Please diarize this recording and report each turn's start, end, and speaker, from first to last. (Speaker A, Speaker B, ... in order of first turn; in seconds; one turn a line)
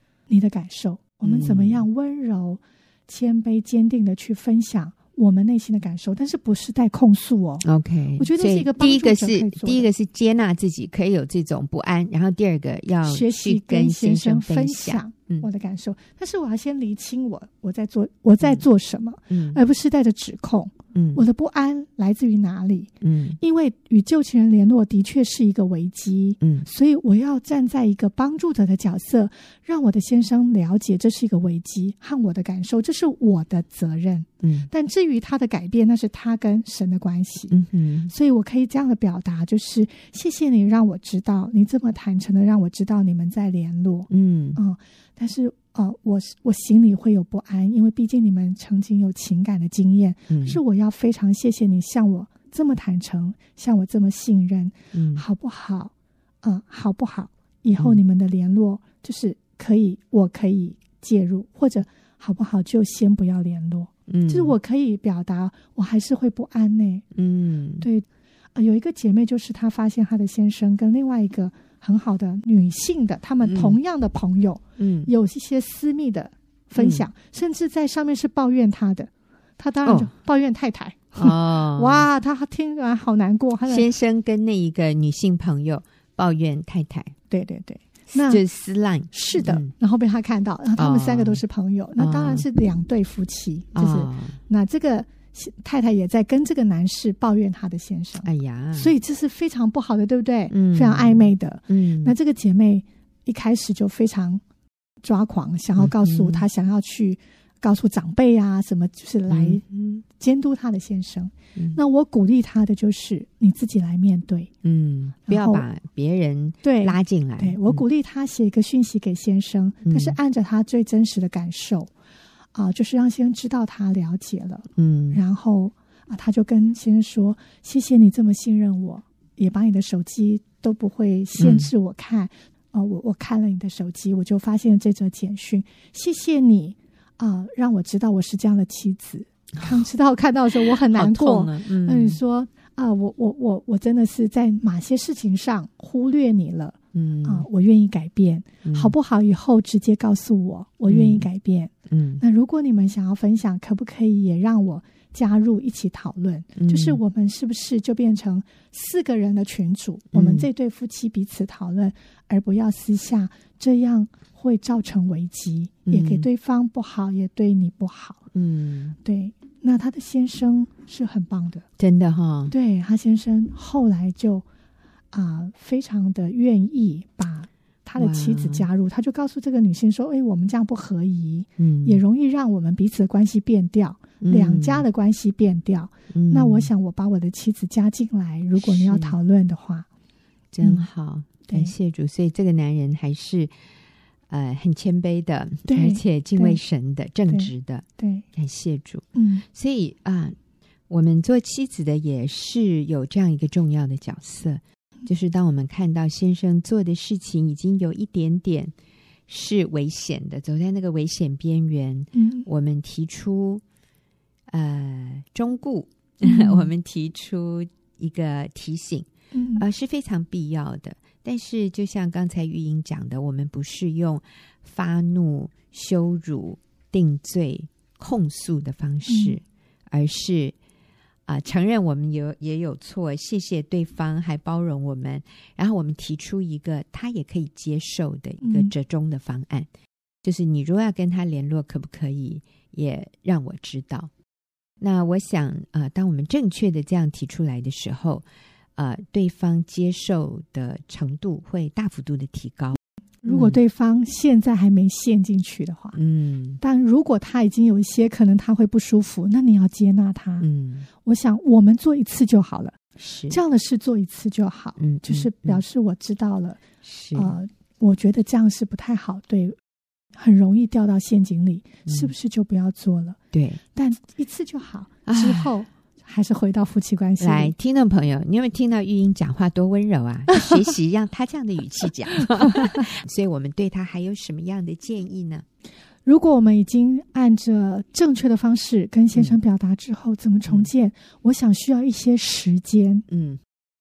Speaker A: 0.3-7.6
Speaker B: 1.2-1.9
Speaker B: 7.6-15.5
Speaker A: 8.2-9.9
Speaker A: 13.0-37.5
Speaker B: 19.3-19.6
Speaker B: 20.9-21.2
Speaker B: 23.0-23.4
Speaker B: 26.4-26.6
Speaker B: 34.4-34.7
Speaker B: 37.5-38.1
Speaker A: 38.1-55.9
Speaker B: 44.1-44.6
Speaker B: 50.3-50.6
Speaker B: 54.9-55.2
Speaker A: 56.4-67.0
Speaker B: 64.1-64.5
Speaker B: 67.1-67.9
Speaker A: 67.8-83.9
Speaker B: 73.4-73.8
Speaker B: 74.8-75.1
Speaker B: 76.8-77.0
Speaker B: 79.8-80.1
Speaker B: 81.2-82.1
Speaker B: 83.7-87.1
Speaker A: 87.3-88.4
Speaker B: 88.1-89.7
Speaker A: 89.1-104.4
Speaker B: 90.8-91.4
Speaker B: 92.0-92.4
Speaker B: 93.7-94.4
Speaker B: 98.2-98.9
Speaker B: 100.5-102.1
Speaker A: 105.0-109.6
Speaker B: 105.8-106.4
Speaker B: 109.3-110.0
Speaker A: 110.2-114.5
Speaker B: 114.6-117.8
Speaker A: 115.3-115.7
Speaker A: 116.6-121.9
Speaker B: 119.9-120.2
Speaker A: 122.5-168.2
Speaker B: 124.8-125.2
Speaker B: 131.4-131.7
Speaker B: 139.6-139.8
Speaker B: 140.6-142.2
Speaker B: 146.9-147.4
Speaker B: 148.6-148.9
Speaker B: 150.9-151.3
Speaker B: 151.9-152.2
Speaker B: 156.6-157.0
Speaker B: 160.1-160.5
Speaker B: 165.9-166.3
Speaker B: 168.3-168.9
Speaker A: 169.0-171.6
Speaker B: 171.8-172.5
Speaker A: 172.5-174.4
Speaker A: 175.1-189.9
Speaker B: 178.0-178.7
Speaker B: 181.6-182.0
Speaker B: 184.2-184.9
Speaker B: 186.1-186.7
Speaker B: 188.6-189.1
Speaker B: 190.5-193.5
Speaker A: 191.5-191.7
Speaker B: 194.3-200.4
Speaker A: 195.7-196.6
Speaker A: 197.3-198.2
Speaker A: 199.1-199.4
Speaker B: 200.9-208.7
Speaker B: 209.3-213.6
Speaker A: 212.1-212.4
Speaker B: 214.5-230.5
Speaker A: 216.2-216.7
Speaker A: 219.3-219.6
Speaker A: 229.1-229.4
Speaker B: 231.3-239.7
Speaker A: 238.4-238.7
Speaker B: 240.2-244.1
Speaker B: 244.8-253.6
Speaker A: 253.2-256.0
Speaker B: 255.9-256.6
Speaker A: 256.6-260.4
Speaker B: 260.4-260.9
Speaker A: 261.0-262.8
Speaker B: 263.0-263.4
Speaker A: 263.3-266.6
Speaker B: 264.8-265.6
Speaker B: 266.8-267.4
Speaker A: 267.1-269.6
Speaker A: 270.1-273.2
Speaker B: 271.9-272.1
Speaker B: 273.3-273.6
Speaker A: 273.7-277.5
Speaker B: 275.1-275.5
Speaker B: 277.2-285.4
Speaker A: 286.0-293.1
Speaker B: 293.1-293.4